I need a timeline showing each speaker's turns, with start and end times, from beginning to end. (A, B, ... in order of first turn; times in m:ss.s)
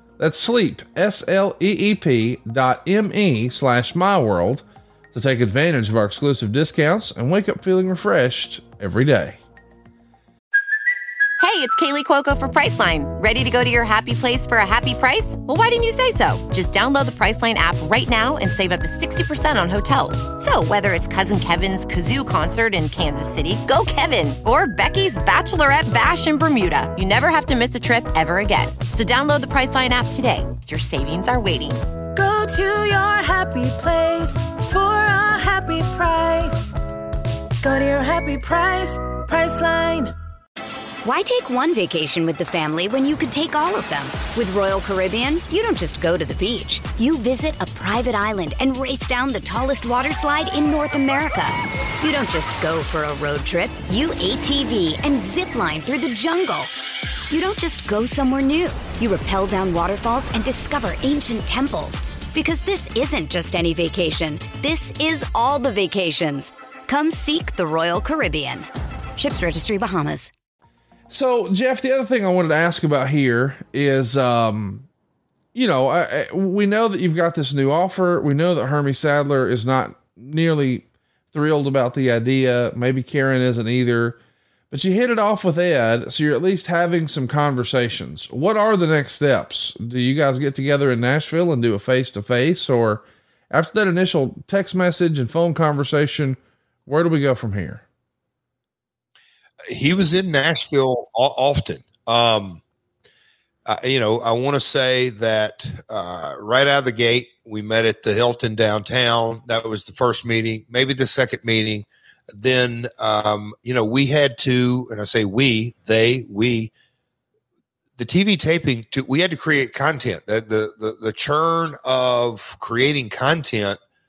0:00.2-0:09.4 A
0:11.4-0:31.8 B
0:32.1-0:36.8 C
0:37.6-0:40.1 C
0:41.0-1:10.3 D
1:11.1-1:14.9 A
1:15.5-1:24.2 A
1:24.7-1:37.8 A
1:39.7-1:42.6 E
1:43.6-1:56.7 E
1:58.0-2:03.8 E